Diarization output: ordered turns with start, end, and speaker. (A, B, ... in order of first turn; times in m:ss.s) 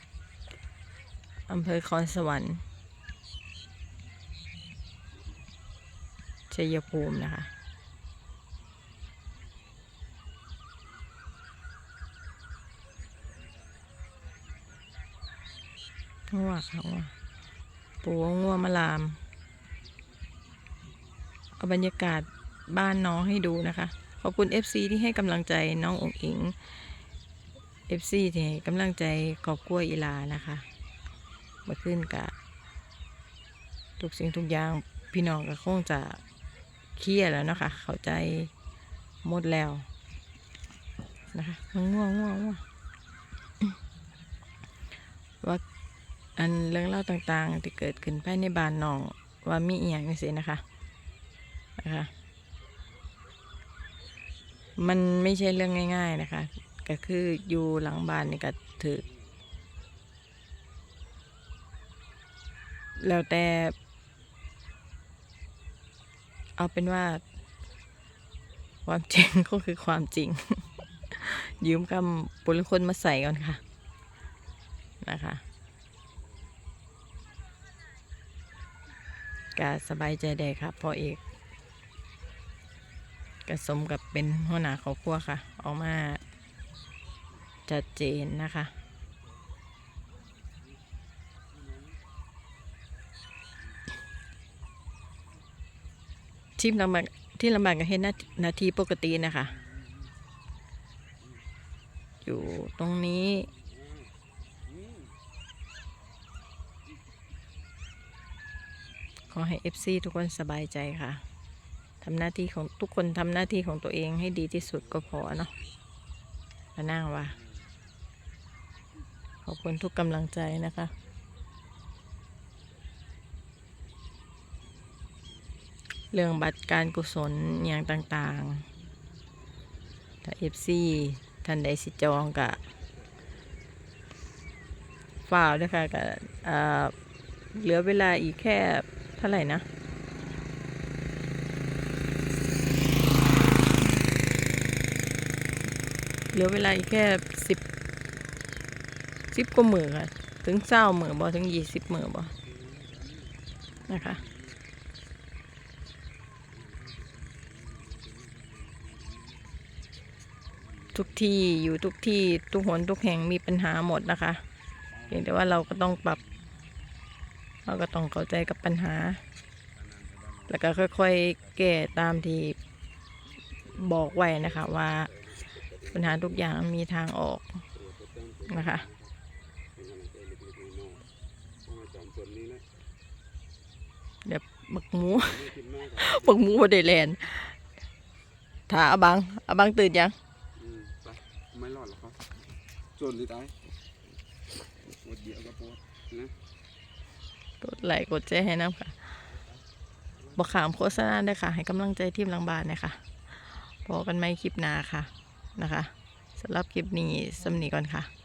0:01.5-0:02.6 A
0:06.5-0:07.5 A
0:13.2-0:13.8 B
0:14.4-0:14.8 B
0:16.3-0:17.1 A
0:18.0-0:19.2 A
0:21.6-0:26.6 A
0:27.9-0:30.6 A
0:31.7-0:32.3 A
0:34.0-0:36.2 A
0:37.0-0:38.5 A
0:39.2-0:39.9 A
0:41.3-0:42.6 A
0:46.4-0:50.6 A
0:51.8-0:52.1 A
0:54.8-0:59.0 A
0:59.0-0:59.5 B
1:03.0-1:03.7 A
1:06.6-1:07.2 A
1:08.8-1:13.6 A
1:15.0-1:15.4 A
1:16.1-1:16.5 B
1:19.6-1:21.2 A
1:23.5-1:26.2 A
1:27.7-1:28.7 A
1:31.5-1:32.0 B
1:36.6-1:39.5 A
1:39.4-1:40.1 B
1:42.2-1:43.5 A
1:43.4-1:45.2 B
1:49.3-1:51.2 A
1:52.0-1:55.5 A
1:54.8-1:55.7 B
1:56.8-1:57.3 A
1:57.2-1:57.7 B
1:59.4-2:00.9 A
2:06.1-2:08.7 A
2:10.2-2:12.6 A
2:12.6-2:12.9 B
2:15.2-2:16.9 A
2:17.5-2:19.6 A
2:26.3-2:27.6 A
2:29.3-2:32.3 A
2:32.4-2:34.7 B
2:33.9-2:34.2 A
2:36.5-2:39.6 B
2:40.5-2:41.1 B
2:40.9-2:44.4 A
2:45.0-2:45.6 B
2:45.1-2:46.2 A
2:47.6-2:49.2 A
2:49.8-2:50.5 B
2:50.5-2:52.6 A
2:53.7-2:55.1 A
2:53.7-2:55.9 B
2:55.9-2:57.6 A
2:57.7-2:59.1 B
2:58.5-2:58.8 A
2:59.8-3:01.1 B
3:01.6-3:02.6 B
3:04.2-3:05.4 A
3:05.2-3:06.4 B
3:06.0-3:07.6 A
3:08.7-3:10.2 A
3:10.6-3:12.4 B
3:13.0-3:13.6 B
3:14.9-3:16.3 B
3:17.6-3:19.1 A
3:20.4-3:28.1 A